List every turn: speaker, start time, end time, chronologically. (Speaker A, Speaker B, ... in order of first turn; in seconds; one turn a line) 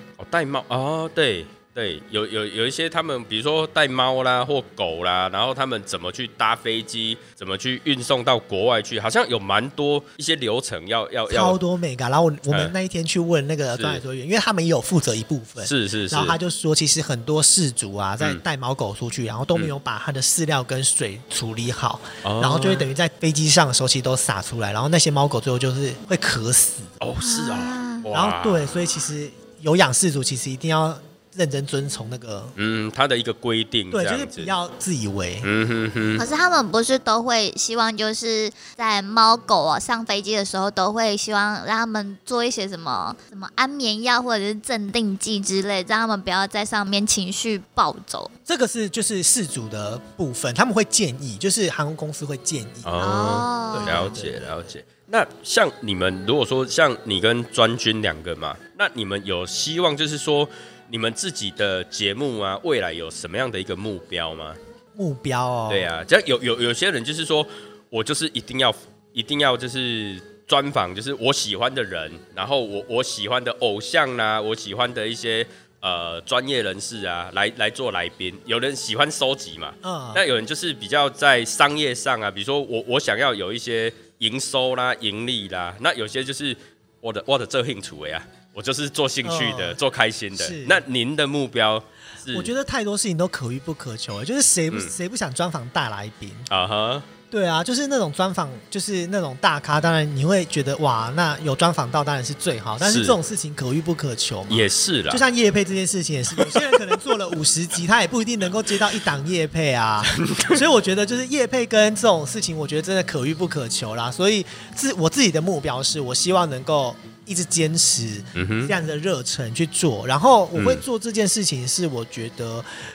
Speaker A: 0.2-11.6
Speaker B: 11.3-26.9
Speaker A: 13.8-14.0
Speaker A: 15.6-16.4
Speaker A: 22.2-22.9
Speaker A: 27.0-28.7
Speaker C: 27.2-28.1
Speaker B: 28.1-32.5
Speaker A: 32.6-34.5
Speaker B: 33.9-35.5
Speaker A: 35.4-36.2
Speaker C: 36.2-48.3
Speaker B: 48.5-53.0
Speaker A: 52.9-64.6
Speaker C: 53.0-54.1
Speaker B: 53.7-54.6
Speaker B: 65.0-65.9
Speaker A: 65.7-92.5
Speaker B: 79.8-80.2
Speaker B: 89.2-89.8
Speaker B: 90.4-90.8
Speaker B: 92.3-96.5
Speaker A: 96.5-97.1
Speaker B: 97.3-122.7
Speaker A: 102.8-103.2
Speaker A: 104.5-105.2
Speaker A: 106.4-106.8
Speaker A: 110.1-110.6
Speaker A: 118.3-118.7
Speaker A: 120.5-120.8